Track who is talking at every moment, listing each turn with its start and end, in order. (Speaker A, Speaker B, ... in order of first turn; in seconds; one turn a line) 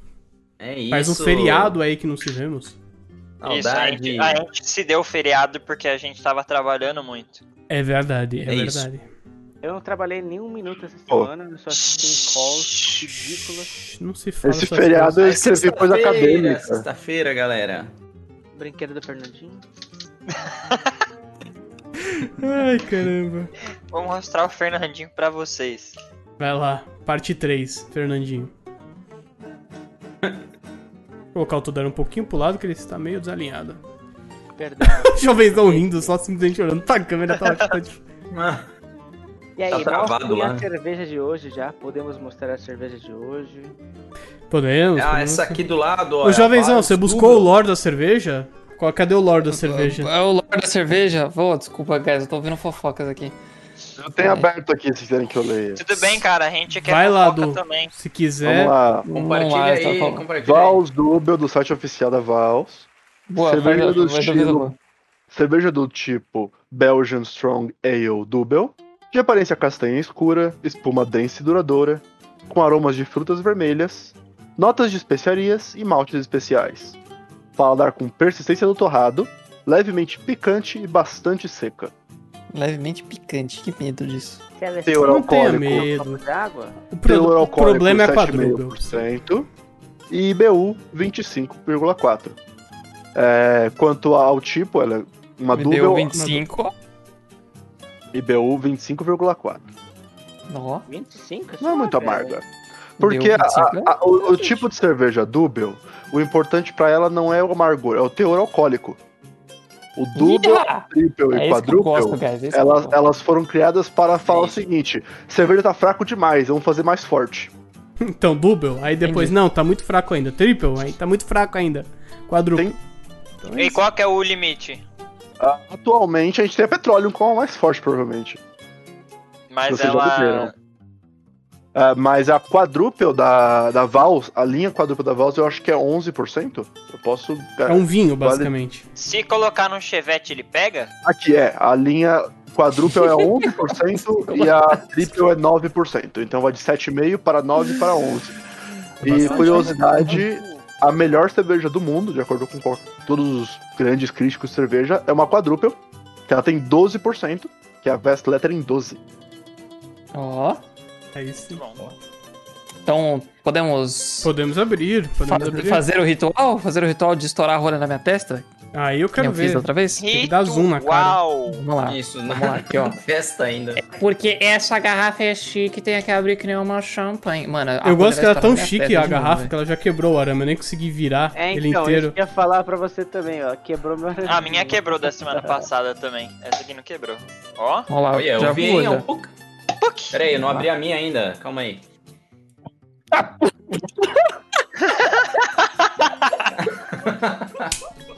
Speaker A: 0.6-1.8
Speaker B: 0.9-2.8
Speaker A: 3.4-4.4
Speaker C: 3.5-7.4
Speaker B: 7.7-9.0
Speaker A: 8.4-8.9
Speaker D: 9.6-13.8
Speaker C: 11.7-13.0
Speaker B: 13.6-15.3
Speaker E: 14.4-16.9
Speaker A: 15.2-17.9
Speaker D: 18.5-19.6
Speaker C: 20.3-20.8
Speaker B: 22.4-23.5
Speaker C: 23.9-26.0
Speaker B: 26.4-28.5
Speaker B: 31.3-33.8
Speaker D: 34.6-36.1
Speaker B: 34.9-38.0
Speaker A: 38.3-38.7
Speaker D: 39.6-43.8
Speaker A: 39.7-40.7
Speaker B: 44.5-45.6
Speaker A: 45.0-47.5
Speaker B: 46.2-50.1
Speaker F: 49.5-53.4
Speaker E: 54.0-56.0
Speaker F: 54.2-54.5
Speaker C: 55.8-57.9
Speaker B: 56.8-58.8
Speaker E: 58.4-59.1
Speaker F: 59.0-60.3
Speaker A: 59.1-60.8
Speaker E: 60.4-64.7
Speaker F: 63.3-64.8
Speaker E: 65.3-77.0
Speaker E: 77.6-81.9
Speaker F: 82.5-84.4
Speaker D: 84.6-86.8
Speaker E: 84.8-85.9
Speaker B: 85.0-86.2
Speaker B: 86.9-89.0
Speaker E: 87.1-89.5
Speaker E: 90.1-92.4
Speaker E: 93.2-96.2
Speaker F: 95.5-96.7
Speaker B: 96.1-96.4
Speaker E: 98.1-99.6
Speaker F: 100.5-100.9
Speaker D: 100.9-102.4
Speaker E: 101.6-102.5
Speaker F: 103.0-104.5
Speaker E: 103.0-109.0
Speaker E: 110.0-117.5
Speaker F: 110.2-113.0
Speaker A: 114.3-114.6
Speaker B: 118.1-122.8
Speaker F: 119.0-119.3
Speaker B: 123.4-123.8
Speaker C: 123.5-124.8
Speaker E: 125.4-128.4
Speaker C: 129.5-130.5
Speaker E: 129.7-130.5
Speaker E: 131.8-138.5
Speaker B: 137.7-138.9
Speaker C: 139.0-140.9
Speaker E: 141.1-148.4
Speaker F: 142.9-143.5
Speaker F: 144.3-144.8
Speaker E: 149.0-159.0
Speaker B: 149.0-150.2
Speaker F: 149.1-150.1
Speaker D: 149.2-150.7
Speaker F: 160.1-160.6
Speaker B: 161.2-161.6
Speaker C: 161.3-161.8
Speaker F: 162.8-164.3
Speaker B: 164.2-165.8
Speaker F: 165.2-168.5
Speaker B: 168.7-171.3
Speaker F: 169.2-170.1
Speaker C: 170.0-171.6
Speaker F: 171.4-173.0
Speaker A: 171.8-173.8
Speaker F: 173.8-179.5
Speaker B: 177.8-182.2
Speaker D: 181.3-185.5
Speaker C: 184.2-187.9
Speaker F: 187.9-189.1
Speaker A: 188.1-189.3
Speaker C: 189.8-190.2
Speaker A: 190.1-191.8
Speaker F: 190.4-190.7
Speaker C: 194.9-195.3
Speaker A: 196.6-197.7